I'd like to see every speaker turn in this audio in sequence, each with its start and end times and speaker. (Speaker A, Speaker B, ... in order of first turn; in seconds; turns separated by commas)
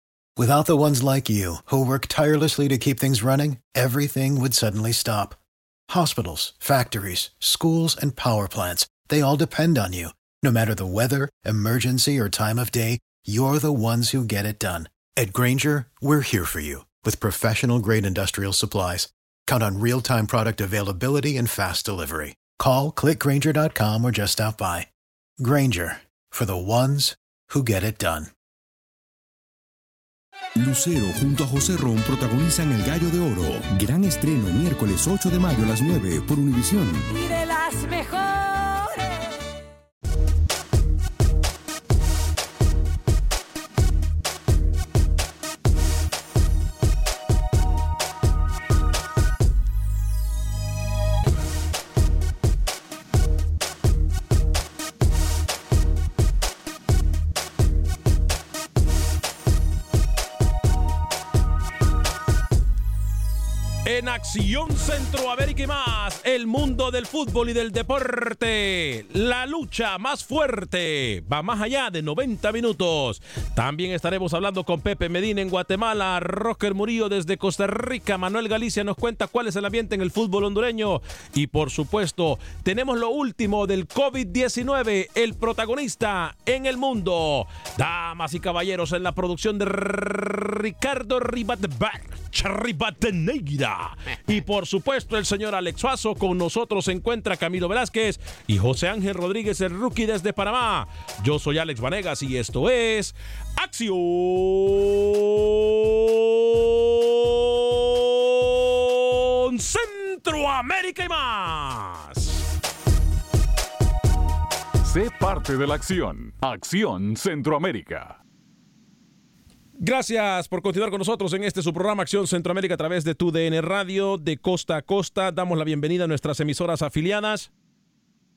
Speaker A: 0.4-5.4, Speaker A: 5.9-28.3, Speaker B: 30.6-37.1, Speaker C: 37.1-39.2, Speaker D: 63.8-112.4, Speaker E: 114.8-118.2, Speaker D: 119.8-127.5